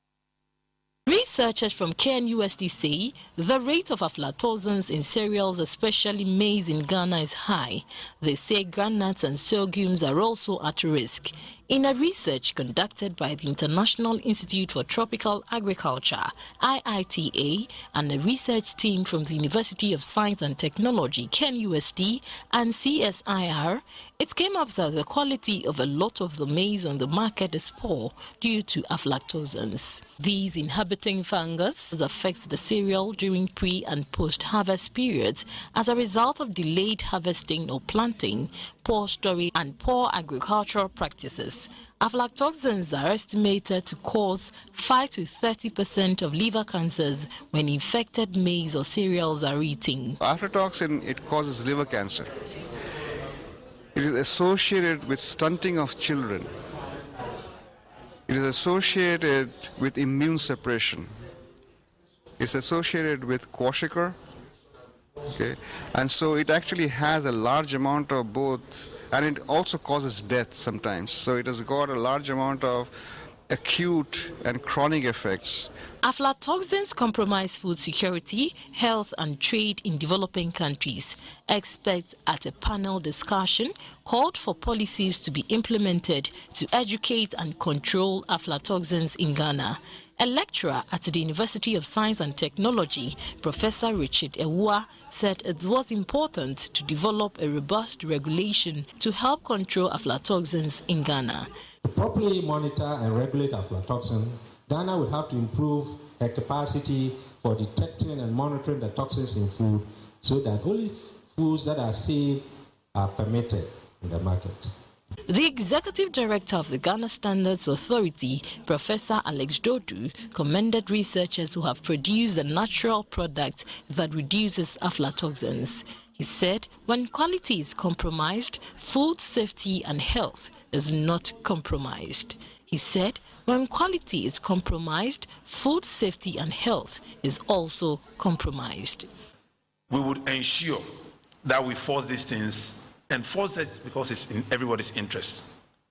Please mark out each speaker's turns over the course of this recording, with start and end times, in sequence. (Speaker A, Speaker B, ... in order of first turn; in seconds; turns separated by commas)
Speaker A: 1.1-50.2, Speaker B: 50.2-52.3, Speaker B: 54.0-56.5, Speaker B: 58.3-61.1, Speaker B: 62.4-64.2, Speaker B: 65.3-72.9, Speaker B: 73.5-75.7, Speaker A: 76.0-101.5, Speaker C: 101.8-114.7, Speaker A: 115.3-139.1, Speaker D: 139.9-140.8, Speaker D: 141.4-145.5